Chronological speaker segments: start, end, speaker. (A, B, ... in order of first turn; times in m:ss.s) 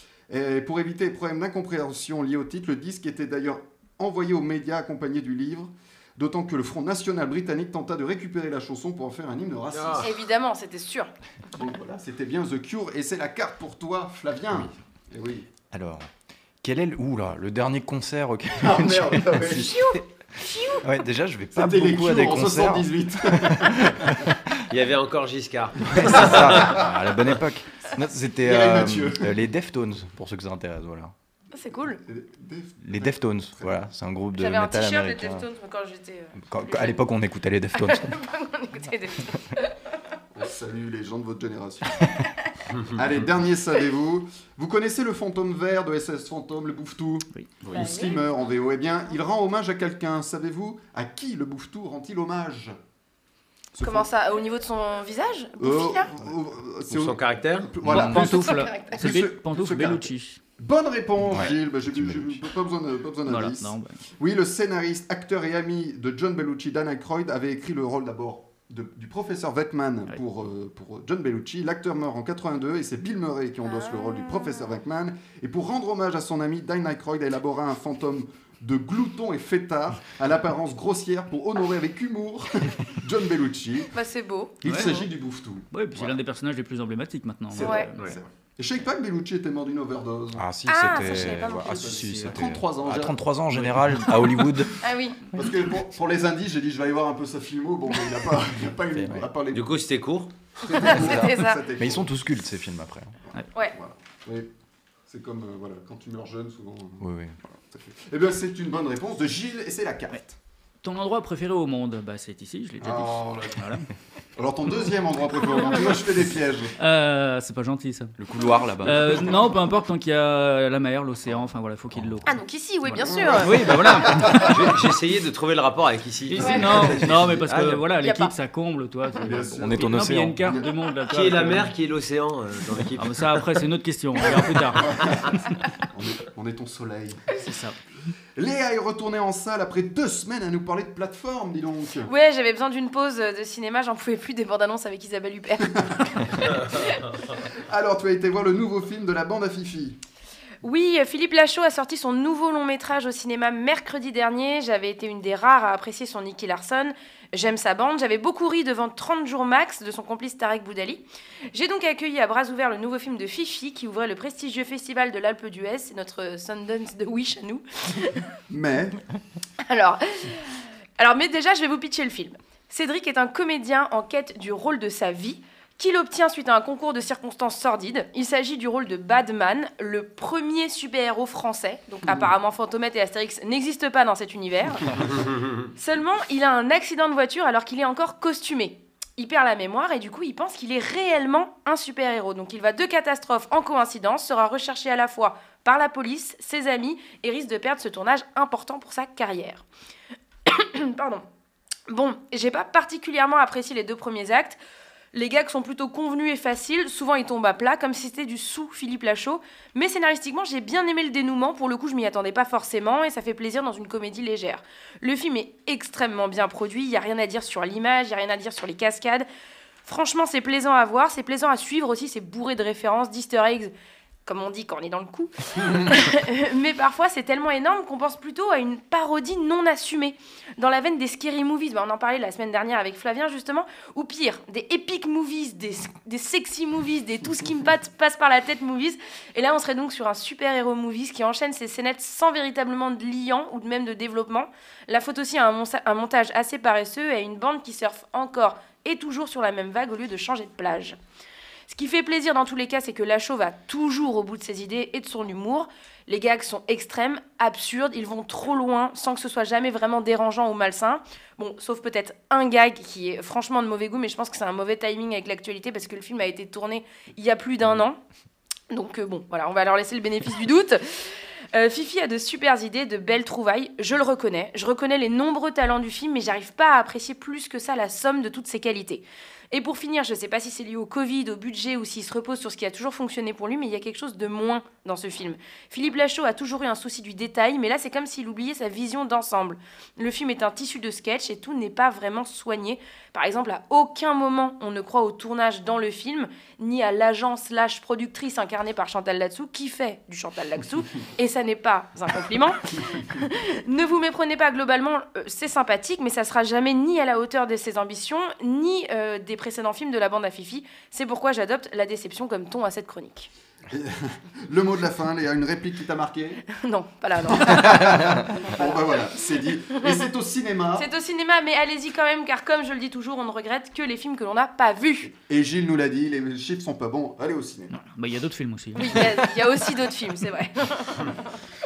0:00.3-0:10.2 A
0:09.7-0:10.1 B
0:10.0-0:11.1 C
0:11.5-0:15.5 A
0:15.7-0:16.1 D
0:16.6-0:24.5 D
0:18.6-0:19.9 A
0:21.5-0:24.2 A
0:24.7-0:26.9 B
0:25.9-0:26.9 A
0:25.9-0:31.1 D
0:28.4-0:29.4 A
0:31.5-0:32.0 C
0:32.0-0:33.9 A
0:32.8-0:35.4 D
0:34.4-0:37.0 C
0:36.4-0:38.1 D
0:37.7-0:39.8 C
0:40.3-0:42.2 A
0:42.9-0:52.8 A
0:47.6-0:47.9 B
0:47.7-0:48.2 C
0:53.7-0:54.1 A
0:53.8-0:56.1 C
0:55.6-1:23.9 A
0:56.9-0:57.7 B
0:57.8-0:58.3 D
0:57.8-1:00.4 E
0:58.1-0:59.0 C
1:01.2-1:02.4 D
1:03.2-1:04.0 E
1:13.6-1:14.8 C
1:23.9-1:24.6 C
1:24.6-1:26.1 A
1:24.6-1:25.1 E
1:25.7-1:28.1 E
1:27.5-1:33.2 A
1:27.6-1:27.9 C
1:30.4-1:34.7 D
1:30.7-1:31.8 C
1:33.5-1:34.5 E
1:34.8-1:35.2 C
1:35.3-1:39.7 A
1:38.9-1:39.2 D
1:39.5-1:40.3 B
1:40.6-1:42.1 A
1:40.7-1:41.6 C
1:40.9-1:43.1 D
1:43.7-1:44.5 A
1:45.1-1:50.4 A
1:47.0-1:47.4 D
1:50.8-1:53.9 E
1:52.8-1:53.7 A
1:54.4-1:56.7 A
1:56.8-1:58.1 E
1:58.2-1:59.3 D
1:58.8-2:04.5 E
2:02.2-2:03.6 C
2:03.0-2:04.5 A
2:04.3-2:07.9 B
2:06.3-2:11.7 E
2:06.4-2:06.7 C
2:08.0-2:08.3 C
2:09.2-2:10.7 A
2:09.6-2:10.4 D
2:11.1-2:13.6 B
2:13.0-2:15.0 E
2:14.3-2:15.3 A
2:15.9-2:17.3 A
2:17.4-2:17.8 E
2:18.4-2:22.1 A
2:22.0-2:26.8 C
2:27.7-2:30.0 A
2:30.6-2:48.2 C
2:48.5-2:49.0 A
2:49.6-3:05.0 C
3:05.8-3:19.6 C
3:20.4-3:21.2 C
3:21.9-3:24.6 C
3:25.1-3:39.2 C
3:39.8-3:43.7 C
3:44.2-4:11.0 C
4:11.7-4:28.0 C
4:28.7-5:13.3 C
5:13.7-5:16.4 A
5:16.5-5:18.8 C
5:17.3-5:20.9 A
5:20.8-5:25.1 C
5:25.1-5:27.7 A
5:27.7-5:29.2 E
5:28.7-5:31.2 C